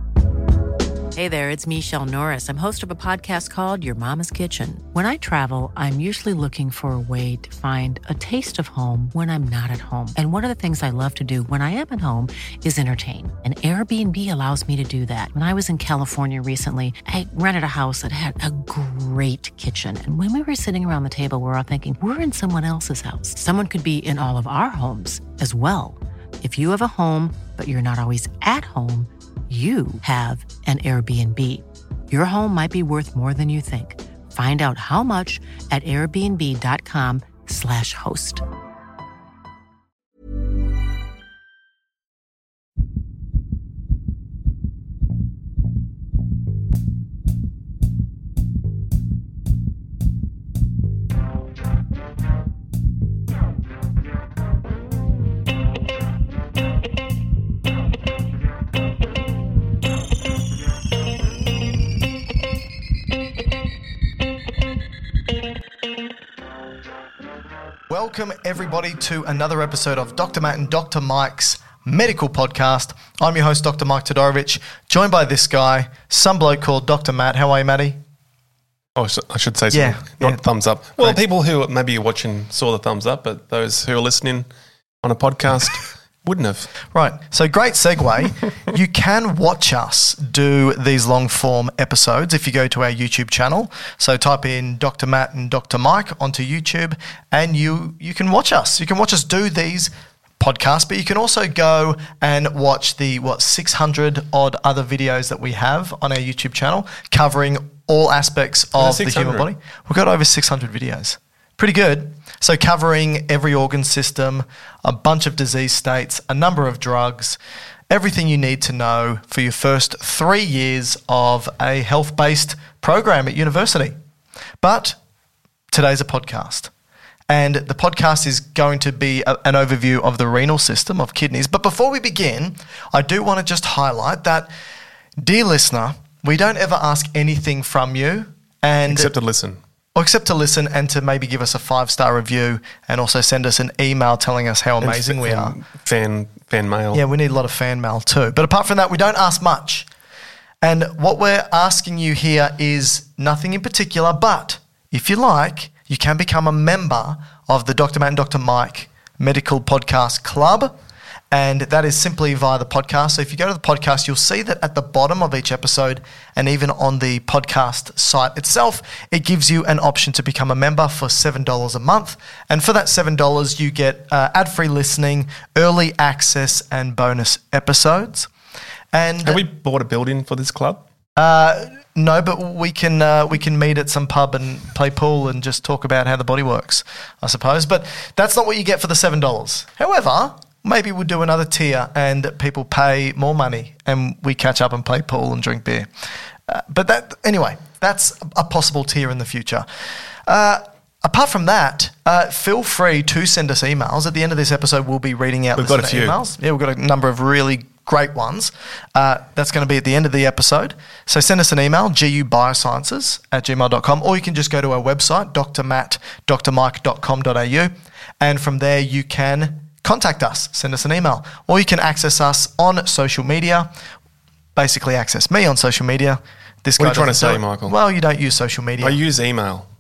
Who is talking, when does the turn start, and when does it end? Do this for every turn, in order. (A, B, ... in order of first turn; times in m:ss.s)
0:01.2-0:38.4 A
1:07.9-1:18.0 B
1:19.0-1:24.5 C
1:19.7-1:20.4 B
1:25.0-1:26.7 C
1:26.9-1:57.4 B
1:48.8-1:49.5 C
1:57.9-2:04.0 B
2:04.6-2:05.0 B
2:05.7-2:06.7 B
2:07.3-2:14.5 B
2:15.2-2:19.1 B
2:18.9-2:19.6 C
2:20.0-2:25.6 B
2:24.8-2:27.0 C
2:26.9-2:29.9 B
2:30.6-2:40.7 B
2:41.3-2:58.3 B
2:58.9-2:59.4 B
2:59.2-3:00.8 C
3:01.2-3:15.9 B
3:16.5-3:19.7 B
3:20.3-3:43.7 B
3:25.6-3:26.2 C
3:44.6-3:49.0 B
3:46.8-3:47.8 C
3:48.8-3:49.7 C